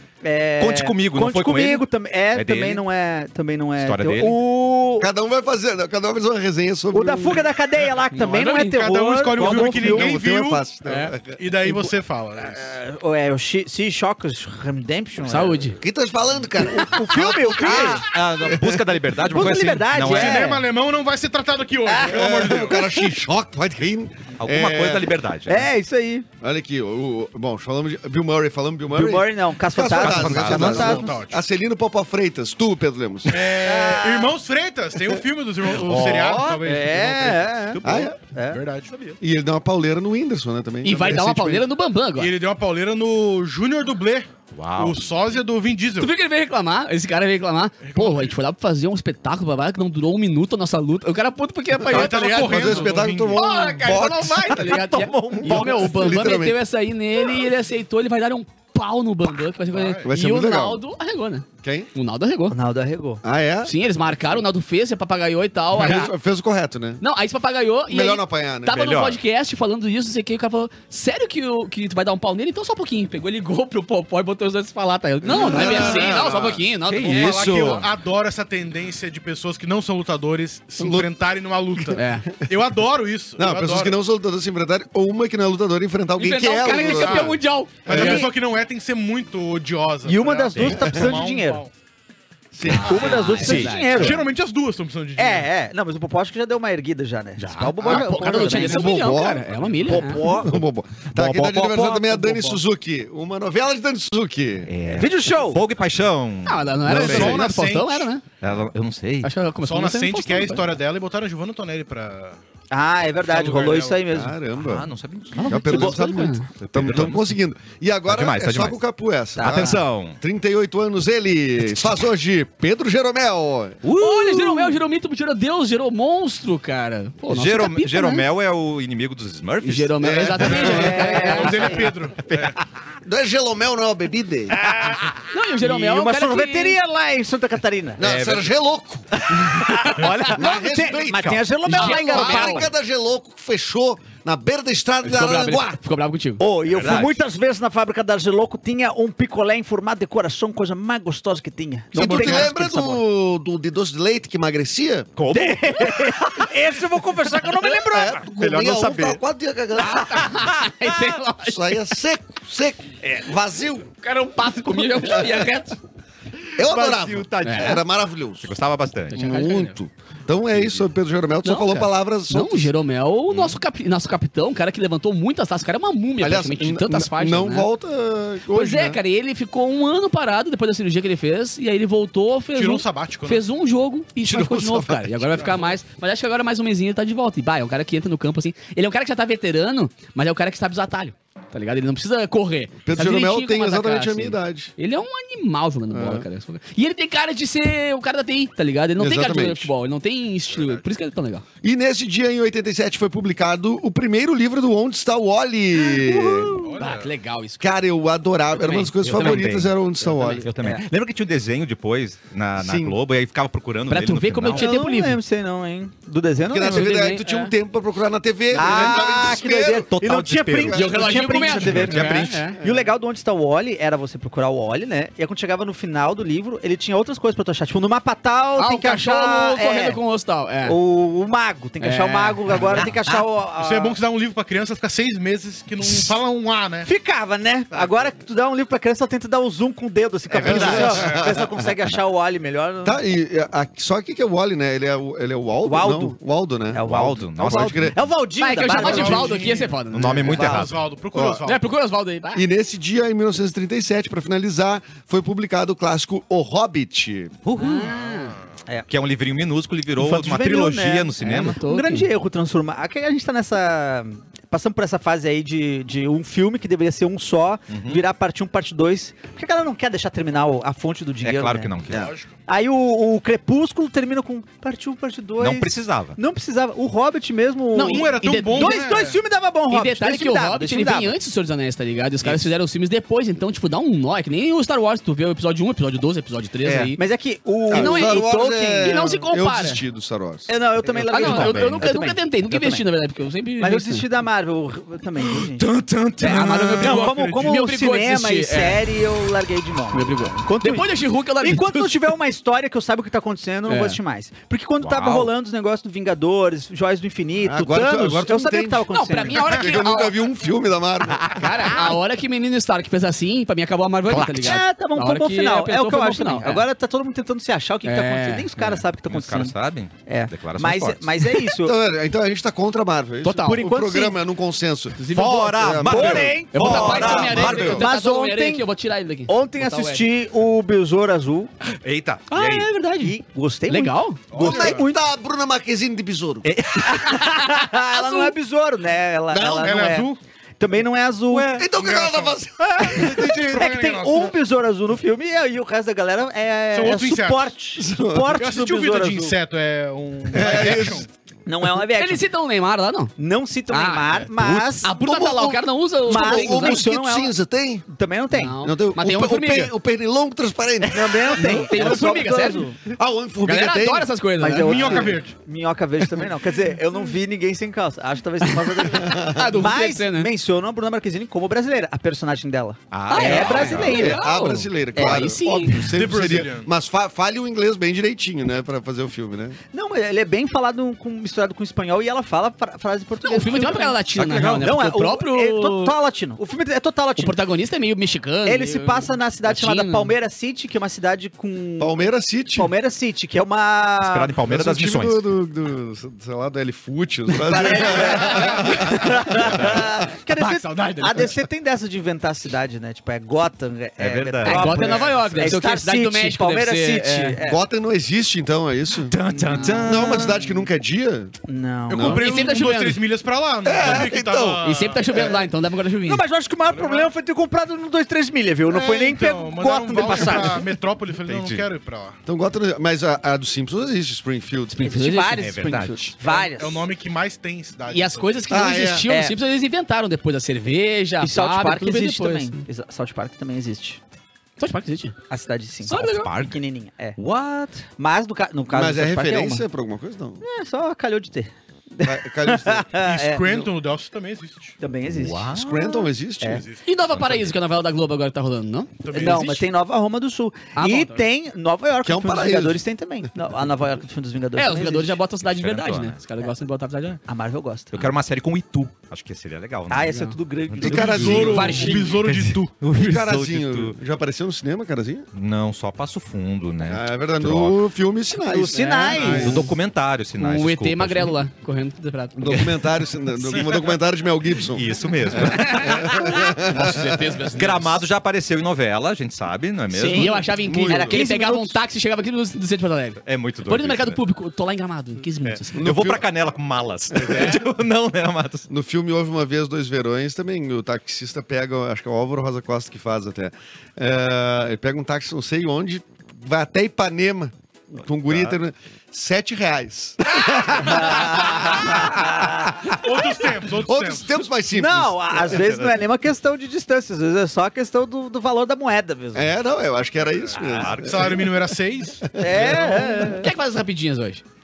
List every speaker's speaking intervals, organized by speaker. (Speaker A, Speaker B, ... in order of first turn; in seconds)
Speaker A: 0.2-5.1, 6.9-10.1, 12.4-15.7, 16.6-18.1, 19.3-20.7, 21.9-23.0, 25.5-26.3, 28.9-31.2, 33.5-34.4, 36.4-38.6, 54.8-55.3, 62.5-63.2, 87.9-88.3, 90.0-91.6, 92.8-94.2, 95.2-99.1, 99.9-100.5, 104.9-105.6, 112.7-114.3, 119.4-119.8, 130.6-131.9, 134.6-135.0, 135.6-138.0, 139.5-142.7, 146.4-153.0, 155.3-158.2, 214.5-216.9, 218.5-230.0, 230.7-234.0, 236.8-243.0, 245.7-246.2, 246.7-249.6, 250.3-250.6, 260.0-271.7, 272.5-281.1, 287.0-289.1, 290.5-292.9, 293.6-295.7, 296.2-309.4, 314.4-319.5, 320.1-321.8, 323.5-324.2, 325.9-328.7, 329.3-331.5, 332.3-335.0, 336.8-341.7, 342.8-349.4, 351.5-352.2, 353.2-354.9, 356.1-357.3, 357.9-358.6, 360.9-362.8, 364.4-374.3, 375.0-375.3, 379.7-387.4, 388.4-392.0, 392.5-394.3, 397.4-407.6, 409.3-410.5, 411.5-412.4, 416.0-420.7, 424.8-426.9, 429.1-429.4, 431.2-434.0, 435.3-439.6, 440.4-443.6, 444.8-446.6, 449.1-455.2, 457.3-458.1, 459.9-462.0, 468.5-469.7, 480.9-481.8, 500.6-502.9, 504.7-509.5, 512.4-513.5
Speaker B: 0.6-2.8, 3.8-4.4, 9.4-10.0, 17.6-20.5, 24.4-25.7, 29.9-30.9, 35.7-36.5, 37.7-38.1, 44.5-45.0, 68.7-69.2, 76.9-77.8, 90.5-90.9, 93.3-94.1, 99.9-100.6, 101.1-102.5, 104.7-107.4, 108.4-109.3, 114.6-117.3, 118.1-118.8, 119.4-120.2, 123.8-124.8, 127.3-130.3, 132.3-132.6, 138.0-138.5, 139.3-141.4, 146.7-147.2, 155.2-156.3, 158.3-159.2, 166.6-167.8, 168.4-169.2, 170.5-170.8, 173.3-173.6, 209.1-209.7, 210.3-214.8, 218.6-222.5, 232.8-233.2, 240.4-240.9, 246.8-248.0, 249.9-250.8, 257.4-257.9, 258.9-261.6, 267.7-268.0, 271.2-272.1, 275.4-276.2, 286.6-286.9, 295.2-297.1, 304.8-305.3, 311.1-311.6, 314.1-314.6, 319.1-321.1, 325.1-327.9, 331.8-332.7, 336.4-337.2, 372.9-374.1, 384.2-384.7, 394.0-395.2, 404.0-405.0, 409.1-410.4, 421.3-421.7, 425.4-426.1, 435.9-436.6, 445.1-445.6, 447.1-447.5, 455.5-456.2, 457.9-460.1, 460.7-461.6, 462.3-464.0, 465.3-467.8, 469.3-471.4, 474.7-476.2, 477.6-480.4, 483.2-484.2, 485.4-488.7, 498.2-498.6, 505.5-505.9, 510.6-511.5
Speaker C: 5.0-7.5, 9.6-11.4, 15.8-18.8, 22.1-25.2, 26.4-33.5, 37.8-38.2, 39.2-41.7, 52.0-56.6, 60.0-60.8, 61.6-61.9, 63.2-63.8, 65.7-67.0, 67.9-68.8, 75.2-77.9, 80.8-81.1, 83.4-87.4, 90.8-91.2, 92.5-93.3, 97.8-104.7, 106.9-107.3, 114.1-114.9, 115.4-123.8, 130.0-131.0, 133.1-134.6, 138.0-139.2, 140.3-145.8, 151.9-155.1, 157.6-160.4, 161.4-163.9, 164.9-165.5, 166.6-168.5, 169.1-172.7, 176.2-179.0, 184.2-185.3, 192.8-194.7, 195.9-196.3, 199.0-199.7, 201.6-206.7, 207.6-210.5, 212.6-213.0, 216.5-219.9, 222.5-222.9, 240.4-241.6, 242.8-248.0, 251.1-251.4, 252.3-257.4, 287.7-290.5, 291.2-291.8, 307.4-311.3, 321.6-327.9, 334.3-336.5, 339.3-339.8, 341.5-343.4, 347.8-348.4, 350.3-351.1, 354.4-357.9, 358.6-362.0, 362.9-364.1, 368.9-369.5, 373.5-379.6, 391.8-392.7, 394.4-399.9, 407.4-409.2, 409.9-411.3, 411.9-412.2, 413.6-414.6, 422.3-425.1, 428.5-429.1, 438.7-440.4, 442.0-443.6, 445.5-446.6, 452.0-452.8, 460.8-461.9, 462.9-465.3, 466.9-469.7, 472.4-477.2, 480.4-481.2, 485.8-486.3, 487.2-487.6, 488.7-502.9, 503.8-505.6, 509.3-511.6, 512.3-513.2
Speaker D: 8.1-8.8, 10.8-11.1, 15.2-15.8, 40.8-42.3, 46.0-62.6, 63.6-66.1, 67.0-77.4, 82.0-82.3, 86.2-88.3, 92.7-94.2, 97.4-100.2, 106.5-108.2, 109.2-110.6, 115.4-116.5, 123.9-128.3, 129.6-131.8, 135.3-136.8, 141.7-142.7, 145.0-146.4, 152.0-152.4, 159.8-161.9, 164.0-165.8, 167.4-167.8, 169.1-169.8, 171.4-177.7, 178.5-201.4, 206.8-207.6, 208.5-209.5, 213.9-215.2, 216.6-217.5, 220.7-222.6, 228.6-230.8, 231.8-232.8, 248.4-250.7, 251.4-252.4, 257.6-258.4, 261.2-262.1, 277.7-278.8, 279.7-287.0, 287.7-289.8, 291.1-294.1, 296.2-298.8, 299.9-301.9, 303.7-304.0, 308.9-310.2, 311.3-316.6, 317.8-318.8, 323.2-323.7, 325.0-326.0, 326.5-330.1, 332.4-333.1, 333.7-334.2, 337.9-338.3, 352.0-353.1, 353.7-354.3, 354.8-356.8, 358.3-359.7, 361.3-362.7, 363.4-365.1, 368.4-370.3, 373.1-375.9, 383.2-386.0, 387.2-390.1, 400.4-401.4, 404.4-407.4, 412.0-413.0, 414.6-416.2, 424.7-425.6, 427.9-432.6, 434.6-435.2, 435.9-436.3, 446.9-449.5, 450.8-451.2, 454.6-457.2, 460.1-460.4, 461.4-462.2, 468.8-469.6, 470.4-472.7, 475.4-478.0, 479.9-485.9, 487.2-487.6, 513.3-514.4
Speaker E: 8.4-10.7, 11.3-12.6, 20.0-22.9, 30.8-31.4, 33.3-37.5, 38.5-39.1, 42.2-46.1, 47.8-48.3, 51.9-53.8, 59.7-60.1, 75.5-76.2, 77.0-84.0, 86.7-91.7, 93.9-95.5, 106.9-108.1, 109.6-112.4, 113.2-114.1, 130.4-132.6, 182.5-183.4, 200.5-200.9, 206.6-207.1, 233.6-236.9, 240.5-241.2, 248.7-251.7, 271.9-272.3, 277.8-279.2, 296.8-297.6, 334.3-334.8, 339.6-340.2, 341.7-344.3, 346.7-347.5, 348.4-351.1, 364.6-365.4, 375.9-376.7, 411.9-415.1, 416.7-417.1, 418.7-422.2, 426.2-428.7, 443.1-444.8, 446.5-446.8, 449.0-449.7, 461.1-462.7, 503.0-504.4, 510.4-513.1